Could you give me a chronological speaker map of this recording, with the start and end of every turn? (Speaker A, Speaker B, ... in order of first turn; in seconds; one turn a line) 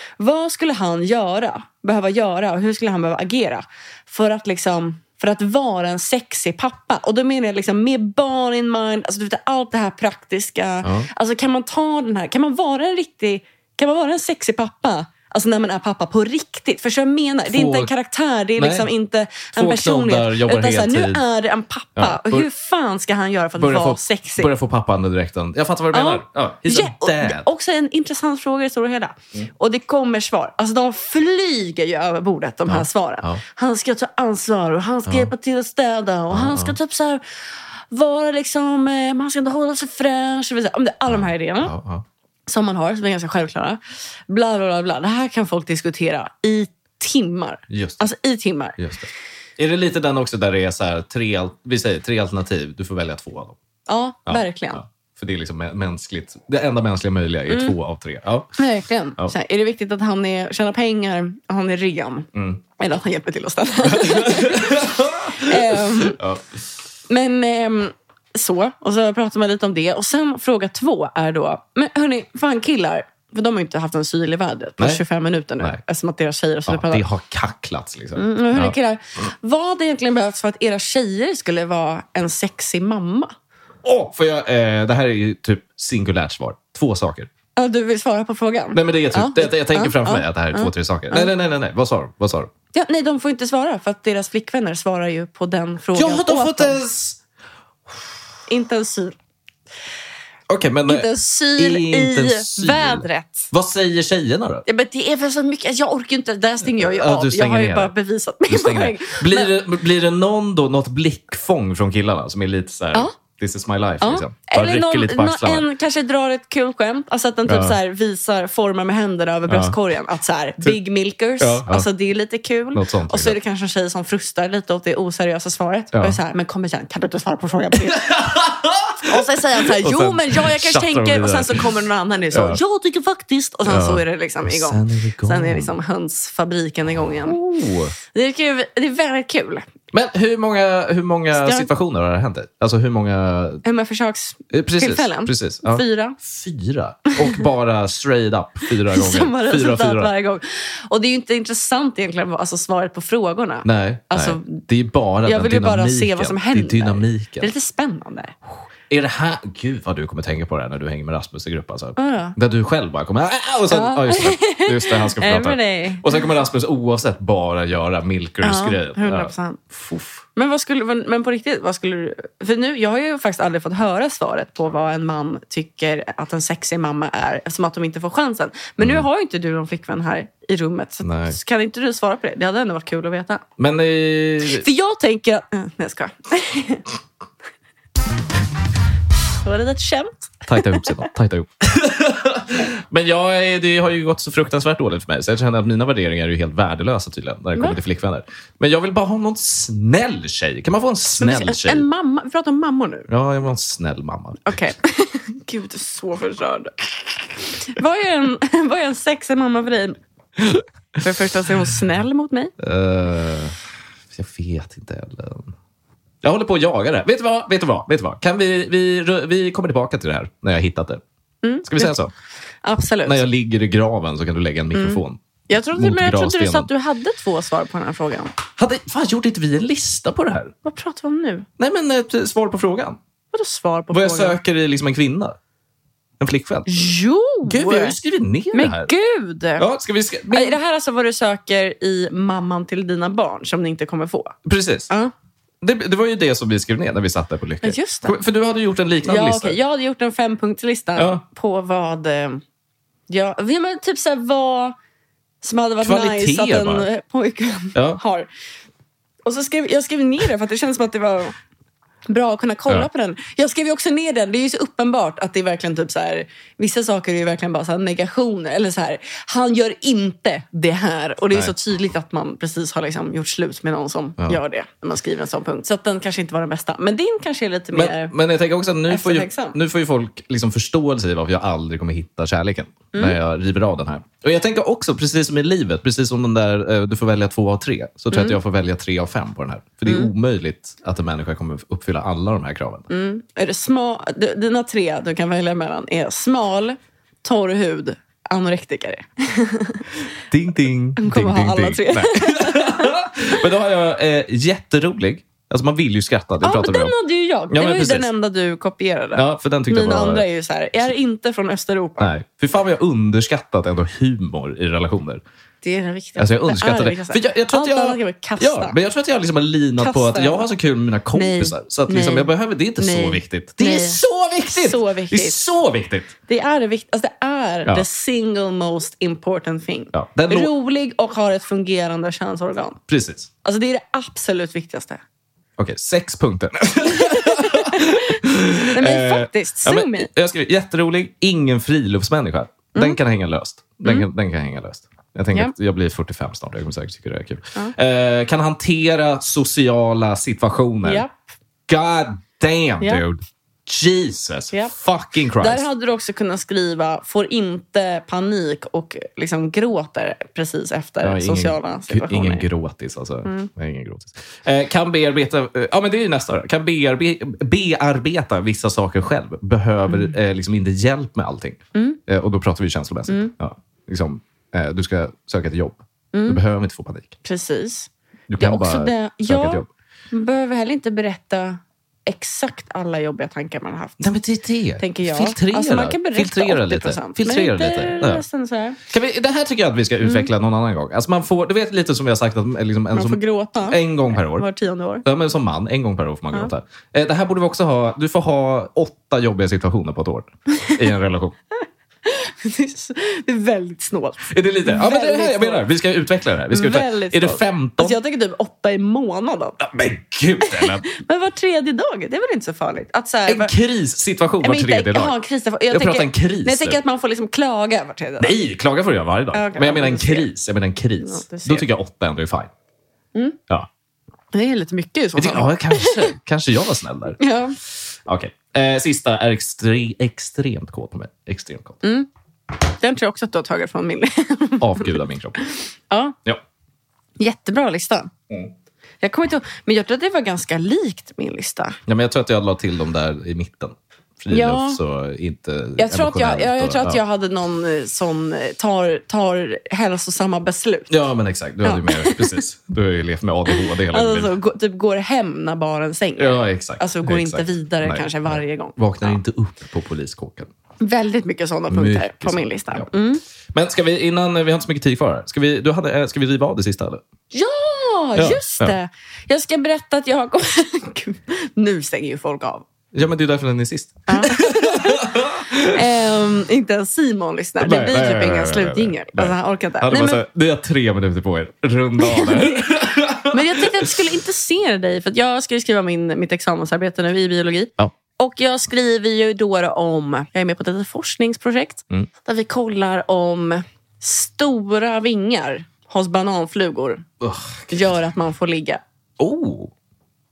Speaker A: 0.2-24.5
Speaker B: 17.5-17.9
Speaker B: 18.6-18.9
Speaker B: 19.5-21.2
Speaker B: 22.0-22.5
Speaker B: 23.6-27.5
Speaker A: 25.9-37.2
Speaker B: 32.7-33.4
Speaker B: 35.1-35.3
Speaker B: 36.3-36.8
Speaker A: 37.9-41.7
Speaker B: 41.1-42.0
Speaker A: 42.5-48.8
Speaker B: 47.7-48.1
Speaker B: 48.8-53.6
Speaker A: 53.9-54.8
Speaker B: 54.3-58.6
Speaker A: 57.5-57.8
Speaker A: 58.6-66.2
Speaker B: 62.3-62.6
Speaker B: 63.9-66.6
Speaker A: 67.1-77.0
Speaker B: 76.7-78.8
Speaker A: 78.2-83.3
Speaker B: 83.8-87.3
Speaker A: 87.6-91.3
Speaker B: 88.7-92.5
Speaker A: 92.7-96.8
Speaker B: 96.0-97.2
Speaker A: 98.5-99.2
Speaker B: 100.5-104.6
Speaker A: 100.9-103.5
Speaker A: 104.7-109.5
Speaker B: 106.6-107.9
Speaker B: 108.5-115.6
Speaker A: 114.0-137.4
Speaker B: 117.5-117.8
Speaker B: 119.5-119.8
Speaker B: 121.4-121.9
Speaker B: 122.7-123.4
Speaker B: 125.9-126.2
Speaker B: 127.9-131.7
Speaker B: 132.3-132.6
Speaker B: 133.7-135.7
Speaker B: 137.0-137.9
Speaker A: 138.1-139.7
Speaker B: 139.9-143.6
Speaker A: 141.3-141.7
Speaker A: 143.6-146.2
Speaker B: 144.5-150.1
Speaker A: 147.1-147.4
Speaker A: 148.7-154.6
Speaker B: 153.7-157.5
Speaker A: 155.2-158.4
Speaker B: 158.9-170.2
Speaker A: 162.0-162.4
Speaker A: 163.7-166.2
Speaker A: 168.4-169.6
Speaker A: 170.3-183.4
Speaker B: 178.8-179.1
Speaker B: 181.0-181.4
Speaker B: 183.6-184.7
Speaker A: 184.4-186.9
Speaker A: 189.4-191.1
Speaker B: 190.5-201.8
Speaker A: 201.2-203.1
Speaker B: 203.1-204.6
Speaker A: 204.4-210.0
Speaker B: 210.4-210.6
Speaker A: 211.0-212.5
Speaker B: 212.6-213.6
Speaker B: 214.1-215.6
Speaker B: 216.2-221.0
Speaker A: 221.4-222.0
Speaker B: 221.7-222.1
Speaker A: 222.6-223.2
Speaker B: 223.1-226.7
Speaker A: 224.7-228.3
Speaker B: 228.6-230.5
Speaker A: 230.6-231.5
Speaker B: 231.6-233.0
Speaker A: 233.3-234.4
Speaker B: 233.9-235.4
Speaker B: 236.2-236.9
Speaker A: 236.7-238.0
Speaker B: 237.4-238.9
Speaker A: 238.5-239.7
Speaker B: 239.6-240.6
Speaker A: 240.2-244.4
Speaker B: 244.4-244.9
Speaker B: 245.6-249.6
Speaker A: 247.6-248.2
Speaker A: 249.0-252.4
Speaker B: 251.0-251.2
Speaker A: 253.1-254.8
Speaker A: 255.4-258.3
Speaker B: 255.8-256.9
Speaker B: 257.8-258.0
Speaker A: 259.2-261.4
Speaker A: 262.1-278.1
Speaker B: 277.7-292.9
Speaker A: 278.9-279.6
Speaker A: 288.1-288.4
Speaker A: 289.9-290.1
Speaker A: 292.9-299.8
Speaker B: 300.3-306.9
Speaker A: 301.0-302.9
Speaker A: 306.4-312.1
Speaker B: 307.5-308.1
Speaker B: 309.1-310.2
Speaker B: 312.0-315.2
Speaker A: 315.6-318.8
Speaker B: 316.2-326.1
Speaker A: 319.8-320.5
Speaker A: 321.1-325.4
Speaker A: 326.3-332.8
Speaker B: 329.9-330.5
Speaker B: 332.9-333.3
Speaker A: 333.4-335.0
Speaker B: 335.6-351.1
Speaker A: 336.9-338.2
Speaker A: 338.7-340.1
Speaker A: 342.7-343.0
Speaker A: 350.8-351.2
Speaker B: 351.7-355.7
Speaker A: 355.4-362.5
Speaker B: 361.0-377.2
Speaker A: 363.2-363.5
Speaker A: 369.9-370.1
Speaker A: 373.1-373.3
Speaker A: 376.1-376.4
Speaker A: 377.2-384.0
Speaker B: 378.3-379.7
Speaker B: 384.0-388.2
Speaker A: 384.8-388.8
Speaker B: 388.9-394.5
Speaker A: 390.0-390.3
Speaker A: 392.9-395.1
Speaker B: 395.0-401.4
Speaker A: 401.6-405.7
Speaker B: 404.3-408.0
Speaker A: 406.5-409.6
Speaker B: 409.6-410.8
Speaker A: 410.4-413.5
Speaker B: 413.3-415.1
Speaker A: 414.4-418.4
Speaker B: 415.7-416.8
Speaker B: 418.2-422.5
Speaker A: 419.3-420.3
Speaker A: 421.0-421.7
Speaker A: 424.3-426.1
Speaker B: 425.2-427.2
Speaker A: 427.2-427.6
Speaker B: 428.1-431.8
Speaker A: 431.8-432.1
Speaker A: 432.8-436.2
Speaker B: 434.6-435.4
Speaker A: 437.2-438.1
Speaker A: 439.0-441.8
Speaker B: 441.9-447.0
Speaker A: 444.3-444.8
Speaker A: 445.8-450.9
Speaker B: 450.9-454.3
Speaker A: 451.6-452.4
Speaker A: 453.5-459.2
Speaker B: 456.2-460.5
Speaker A: 460.8-463.2
Speaker B: 461.7-462.9
Speaker B: 463.5-467.0
Speaker A: 467.3-472.7
Speaker B: 468.2-468.8
Speaker B: 472.9-475.9
Speaker A: 474.1-480.2
Speaker B: 477.6-483.9
Speaker A: 482.0-482.6
Speaker A: 483.3-497.1
Speaker B: 497.2-497.9
Speaker A: 497.7-498.8
Speaker B: 499.2-499.7